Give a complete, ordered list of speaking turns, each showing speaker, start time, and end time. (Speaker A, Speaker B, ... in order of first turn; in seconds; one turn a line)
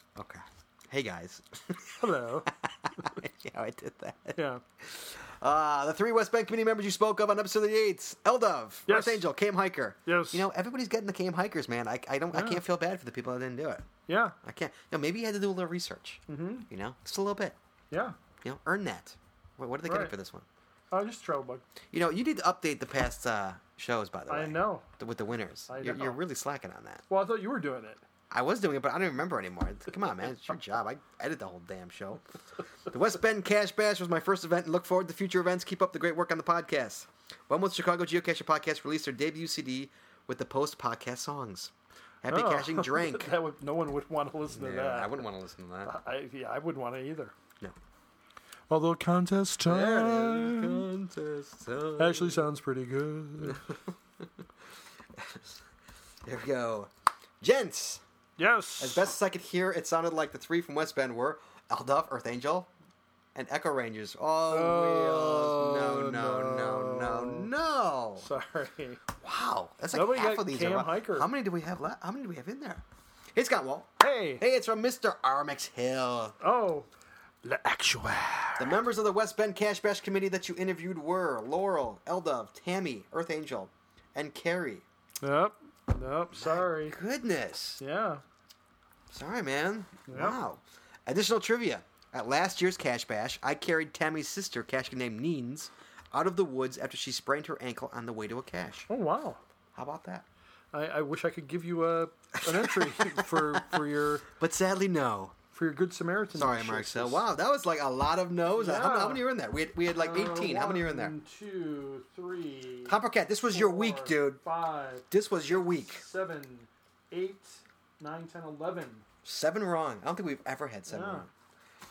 Speaker A: 0.1-13.9
Speaker B: 2.0-2.5
Speaker B: 4.3-4.6
Speaker B: 8.9-9.2
Speaker B: 10.1-10.5
Speaker B: 12.3-12.6
Speaker B: 14.1-14.4
Speaker A: 14.4-17.6
Speaker B: 16.3-16.7
Speaker B: 17.9-18.1
Speaker A: 18.4-20.4
Speaker B: 19.8-20.1
Speaker B: 20.9-21.6
Speaker A: 21.9-27.0
Speaker B: 24.3-24.9
Speaker B: 25.7-26.2
Speaker B: 27.1-28.0
Speaker A: 28.3-32.2
Speaker A: 32.9-41.7
Speaker A: 42.2-43.3
Speaker B: 42.3-45.2
Speaker A: 44.5-45.9
Speaker B: 45.8-47.3
Speaker B: 48.7-50.9
Speaker A: 49.6-52.5
Speaker B: 52.0-53.6
Speaker A: 53.4-54.3
Speaker A: 55.1-55.6
Speaker A: 56.2-56.9
Speaker A: 57.4-58.0
Speaker B: 58.4-59.1
Speaker A: 58.8-62.7
Speaker A: 63.3-68.2
Speaker B: 64.5-67.5
Speaker B: 68.2-69.0
Speaker A: 69.2-72.8
Speaker B: 69.9-71.3
Speaker A: 73.3-76.3
Speaker B: 74.0-74.4
Speaker B: 76.4-76.9
Speaker B: 77.4-78.8
Speaker A: 78.6-84.8
Speaker B: 85.2-87.0
Speaker A: 86.3-87.8
Speaker B: 87.8-88.2
Speaker A: 89.1-98.9
Speaker B: 90.1-90.4
Speaker B: 98.9-99.4
Speaker A: 99.7-100.2
Speaker B: 100.7-104.2
Speaker A: 102.3-105.3
Speaker B: 105.5-107.2
Speaker A: 106.3-111.1
Speaker B: 108.5-109.2
Speaker B: 109.9-113.0
Speaker A: 112.8-114.4
Speaker B: 113.5-115.0
Speaker A: 115.1-116.0
Speaker B: 115.9-119.0
Speaker A: 119.2-121.3
Speaker B: 120.9-121.3